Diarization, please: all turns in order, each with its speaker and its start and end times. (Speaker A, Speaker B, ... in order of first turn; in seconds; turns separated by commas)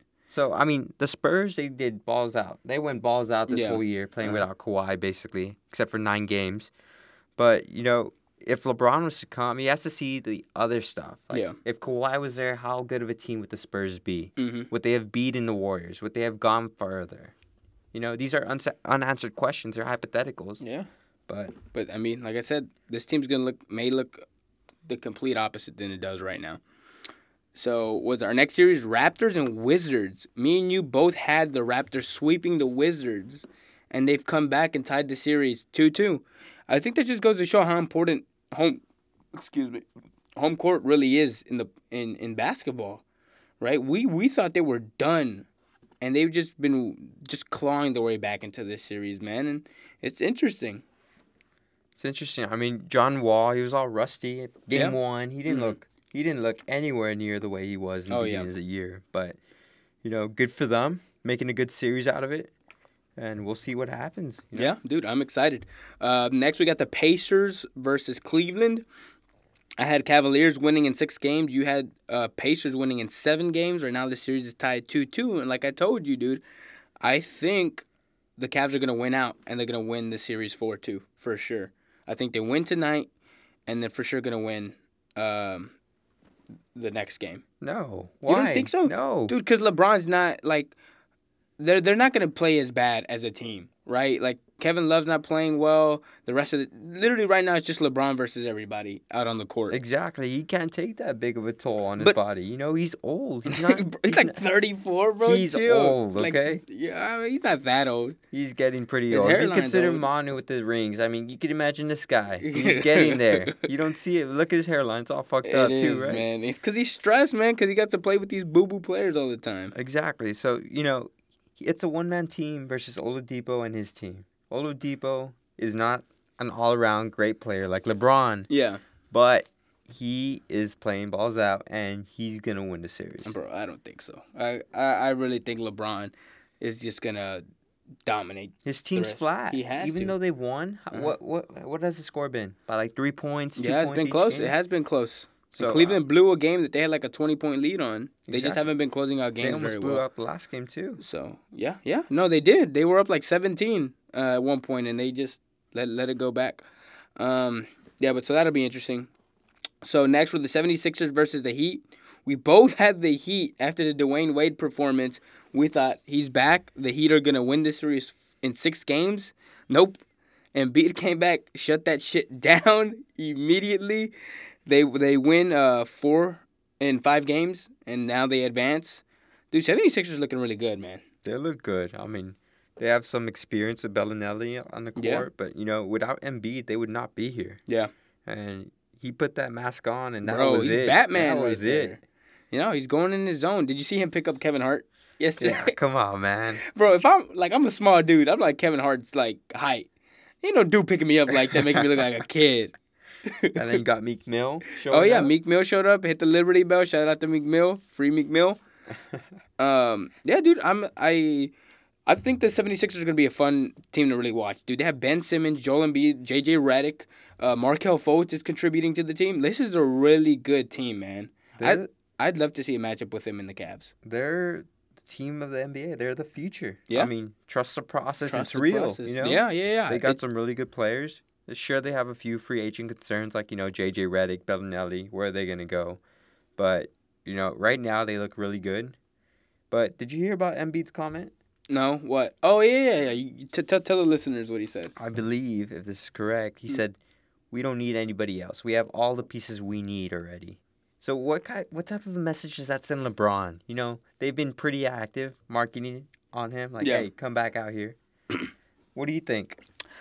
Speaker A: 0.3-6.7, Speaker B: 3.5-4.4, Speaker A: 7.4-17.3, Speaker B: 11.3-11.6, Speaker B: 14.4-14.7, Speaker A: 17.9-20.6, Speaker B: 20.6-20.9, Speaker A: 21.3-21.6, Speaker B: 21.7-24.2, Speaker B: 24.9-26.6, Speaker B: 27.6-38.8, Speaker B: 39.3-39.8, Speaker B: 40.4-43.0, Speaker B: 43.6-45.5, Speaker B: 46.0-50.8, Speaker A: 52.0-59.4, Speaker B: 54.7-55.8, Speaker B: 58.1-58.5, Speaker A: 60.0-62.5, Speaker A: 63.2-64.8, Speaker B: 64.5-68.8, Speaker B: 69.8-76.4, Speaker B: 77.0-77.9, Speaker B: 78.4-83.1, Speaker B: 83.7-85.7, Speaker B: 86.8-87.4, Speaker A: 87.6-89.3, Speaker B: 88.3-90.7, Speaker B: 91.6-99.8, Speaker A: 99.7-104.4, Speaker B: 103.5-108.2, Speaker A: 105.2-106.6, Speaker A: 108.3-116.3, Speaker B: 109.1-110.1, Speaker B: 112.4-113.7, Speaker B: 115.4-119.7, Speaker A: 119.7-128.5, Speaker B: 128.5-128.8, Speaker A: 129.1-133.3, Speaker B: 133.2-137.4, Speaker B: 138.1-140.2, Speaker A: 138.7-144.5, Speaker B: 143.6-150.0, Speaker A: 145.5-146.0, Speaker A: 148.3-148.7, Speaker A: 149.4-151.0, Speaker B: 151.0-156.7, Speaker B: 157.2-159.1, Speaker B: 159.8-170.0, Speaker B: 170.5-174.1, Speaker B: 174.7-181.0, Speaker A: 181.2-187.6, Speaker B: 184.9-185.3, Speaker A: 188.3-191.9, Speaker B: 190.2-195.8, Speaker A: 195.4-196.6, Speaker B: 196.6-199.9, Speaker B: 200.4-202.7, Speaker B: 203.3-203.6, Speaker A: 203.6-205.3, Speaker B: 204.9-208.6, Speaker B: 209.6-211.5, Speaker B: 212.1-223.9, Speaker A: 221.6-221.9, Speaker A: 224.0-236.0, Speaker B: 228.3-230.2, Speaker A: 236.6-238.9, Speaker A: 239.7-241.3, Speaker B: 241.7-244.9, Speaker A: 245.0-247.0, Speaker A: 247.5-258.0, Speaker B: 256.8-257.1, Speaker A: 258.9-259.6